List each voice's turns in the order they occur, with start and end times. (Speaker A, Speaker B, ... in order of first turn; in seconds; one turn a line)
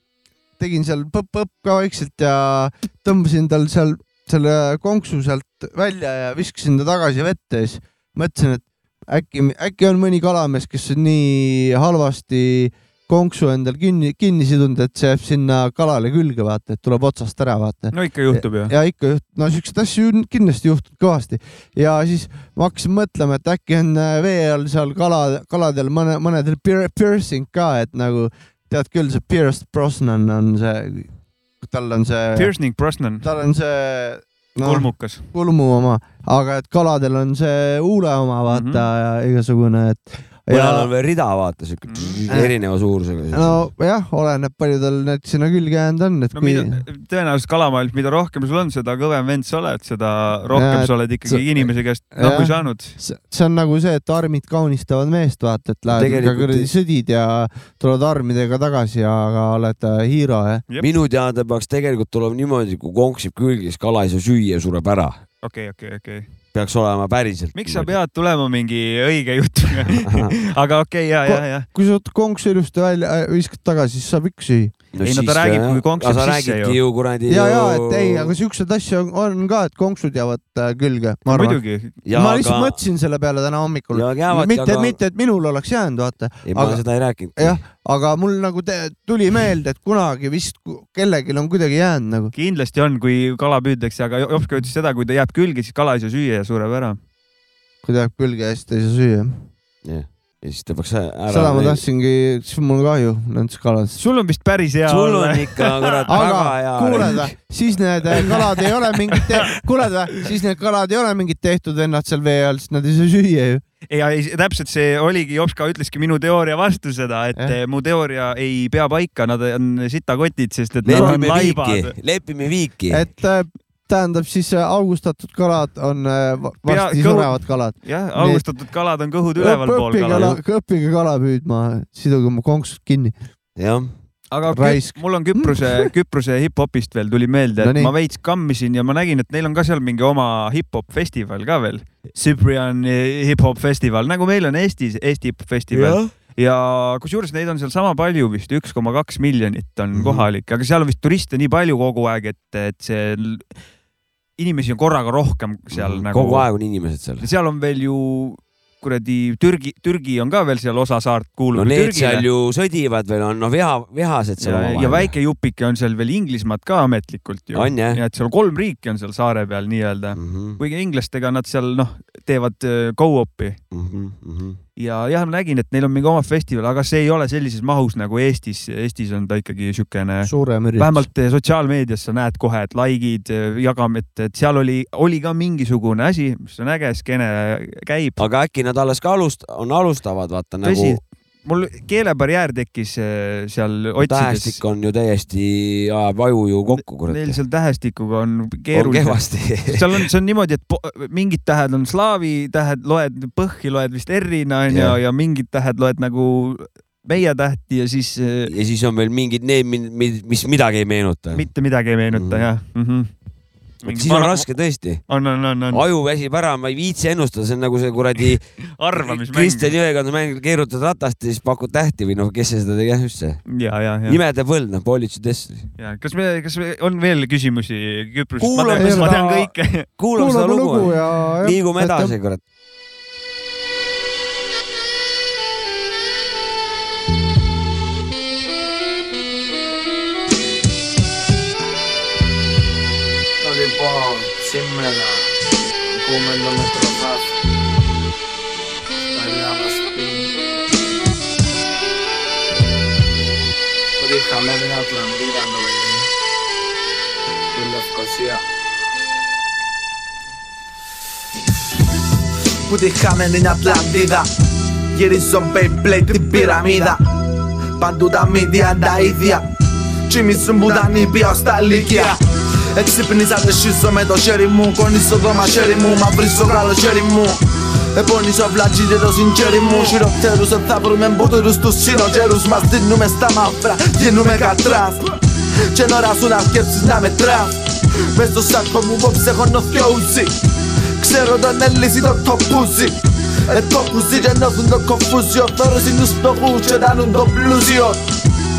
Speaker A: 0.6-32.5
Speaker B: 17.9-18.7
Speaker B: 32.3-33.3
Speaker A: 33.2-40.9
Speaker B: 34.6-35.2
Speaker B: 38.5-38.9
Speaker C: 40.5-43.5
Speaker B: 41.9-42.2
Speaker A: 43.3-46.8
Speaker B: 46.3-53.0
Speaker A: 50.5-60.6
Speaker C: 55.9-56.7
Speaker C: 60.8-65.2
Speaker B: 65.4-66.3
Speaker C: 66.5-68.0
Speaker B: 67.5-71.7
Speaker C: 70.0-70.3
Speaker A: 71.2-74.7
Speaker C: 74.9-78.3
Speaker B: 75.0-76.8
Speaker A: 77.3-86.8
Speaker B: 81.3-82.0
Speaker C: 82.0-82.8
Speaker C: 83.9-85.0
Speaker C: 86.4-87.6
Speaker A: 87.4-92.3
Speaker B: 92.3-97.0
Speaker A: 97.8-99.4
Speaker C: 99.8-101.8
Speaker A: 101.3-104.0
Speaker B: 104.0-106.2
Speaker C: 104.9-107.3
Speaker A: 106.1-113.6
Speaker B: 113.9-121.9
Speaker C: 120.8-123.0
Speaker A: 120.9-121.2
Speaker A: 122.9-128.4
Speaker B: 126.7-130.4
Speaker A: 129.4-133.2
Speaker C: 133.6-133.9
Speaker B: 134.3-153.5
Speaker A: 134.5-135.9
Speaker A: 137.6-137.9
Speaker C: 145.7-146.1
Speaker C: 149.9-150.2
Speaker B: 154.4-156.5
Speaker C: 155.7-157.2
Speaker B: 157.2-162.2
Speaker C: 161.5-165.1
Speaker B: 164.4-173.6
Speaker C: 167.5-168.0
Speaker C: 170.2-170.6
Speaker C: 173.7-174.6
Speaker B: 174.8-188.2
Speaker A: 180.2-181.1
Speaker C: 188.2-191.0
Speaker B: 190.6-194.6
Speaker C: 194.0-197.4
Speaker B: 196.7-208.5
Speaker C: 198.7-200.1
Speaker C: 204.7-205.0
Speaker C: 208.5-211.4
Speaker B: 211.3-213.1
Speaker C: 212.1-212.5
Speaker B: 213.8-214.5
Speaker C: 213.8-215.0
Speaker B: 215.1-215.8
Speaker C: 215.7-218.4
Speaker B: 218.8-219.7
Speaker C: 218.9-223.4
Speaker B: 223.5-224.2
Speaker C: 224.1-225.7
Speaker B: 225.8-229.9
Speaker C: 228.4-229.4
Speaker A: 228.7-229.4
Speaker C: 230.0-232.4
Speaker A: 230.1-232.1
Speaker D: 243.4-247.4
Speaker D: 249.1-250.3
Speaker D: 254.0-256.1
Speaker D: 257.5-258.4
Speaker E: 262.7-264.3
Speaker E: 264.9-267.0
Speaker E: 267.8-269.4
Speaker E: 270.1-272.2
Speaker E: 272.7-277.4
Speaker E: 277.9-285.0
Speaker E: 285.7-287.6
Speaker E: 288.1-290.3
Speaker E: 291.0-298.0